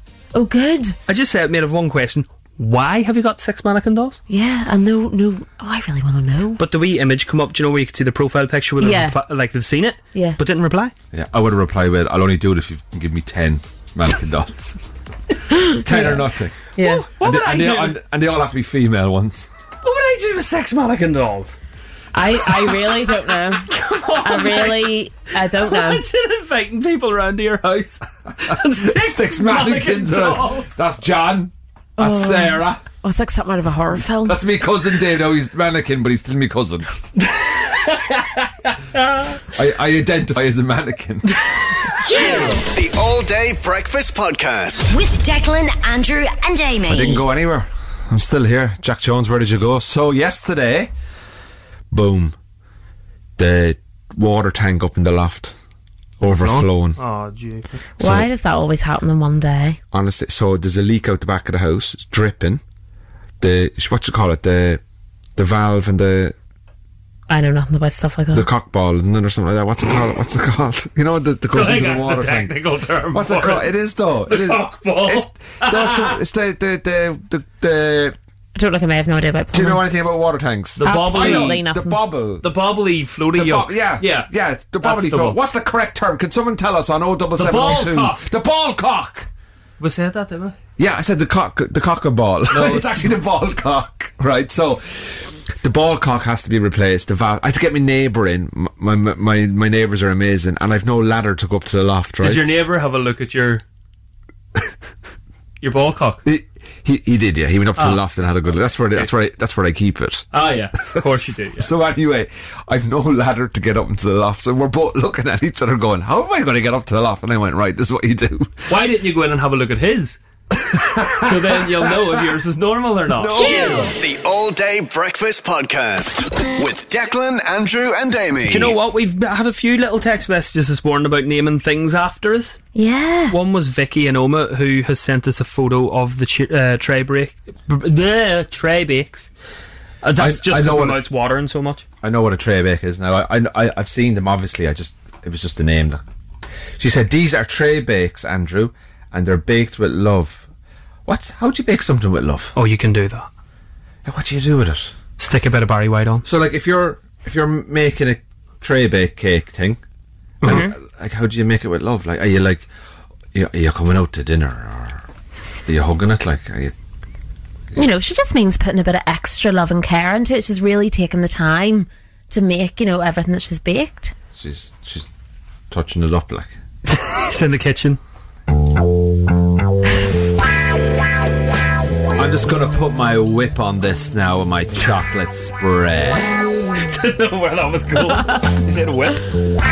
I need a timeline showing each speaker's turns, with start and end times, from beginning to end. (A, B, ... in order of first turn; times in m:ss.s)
0:00.3-0:01.0 A
0:01.1-0:04.2 B
0:04.3-0:06.6 A
0:06.6-0:10.9 B
0:08.8-0:09.2 A
0:10.1-0:10.4 A
0:11.1-0:14.8 C
0:15.5-0:16.2 A
0:15.7-0:16.6 C
0:16.8-0:17.1 A
0:16.8-0:18.0 B
0:17.2-0:19.5 C
0:19.8-0:21.6 B
0:22.1-0:26.0 A
0:22.4-0:23.1 B
0:23.6-0:30.8 B
0:28.5-0:32.8 C
0:32.0-0:34.4 A
0:34.2-0:36.9 C
0:37.2-0:39.4 B
0:39.5-0:41.4 C
0:41.3-0:42.3 B
0:42.1-0:42.5 A
0:42.7-0:45.0 D
0:44.9-0:47.2 E
0:46.9-0:50.9 C
0:51.9-0:52.4 C
0:53.4-0:55.6 C
0:56.2-0:57.0 C
0:56.2-0:57.8 B
0:58.0-0:59.8 A
0:58.0-0:58.3 C
0:59.9-1:02.6 C
1:03.4-1:04.8 C
1:05.4-1:06.4 C
1:07.3-1:08.5 A
1:08.3-1:12.6 C
1:11.5-1:13.7 B
1:13.1-1:18.2 C
1:14.3-1:16.2 B
1:18.6-1:19.8 A
1:19.5-1:22.4 C
1:20.8-1:21.6 B
1:20.8-1:22.0 A
1:22.4-1:24.3 B
1:23.3-1:29.3 C
1:24.8-1:25.4 B
1:27.4-1:28.2 B
1:29.8-1:30.6 B
1:30.8-1:42.5 C
1:32.5-1:33.1 B
1:42.2-1:43.6 B
1:45.6-1:46.2 B
1:46.2-1:50.3 C
1:47.8-1:48.0 B
1:50.3-1:51.7 B
1:50.8-1:58.7 C
1:58.7-2:00.2 B
2:00.5-2:02.4 C
2:01.1-2:03.4 B
2:03.1-2:03.9 C
2:03.4-2:03.9 A
2:04.0-2:08.7 D
2:08.5-2:12.6 B
2:12.7-2:13.4 A
2:13.3-2:19.3 B
2:20.0-2:21.8 B
2:20.2-2:21.0 C
2:22.0-2:26.0 C
2:26.8-2:30.4 C
2:31.1-2:32.5 C
2:32.6-2:33.3 B
2:34.0-2:34.9 C
2:35.2-2:36.2 B
2:36.2-2:39.8 C
2:40.4-2:42.7 C
2:40.4-2:40.7 A
2:43.3-2:45.1 C
2:45.6-2:46.7 C
2:47.7-2:54.1 A
2:54.4-2:55.1 C
2:55.7-2:56.6 C
2:56.9-2:58.0 B
3:02.2-3:06.3 C
3:06.7-3:09.2 B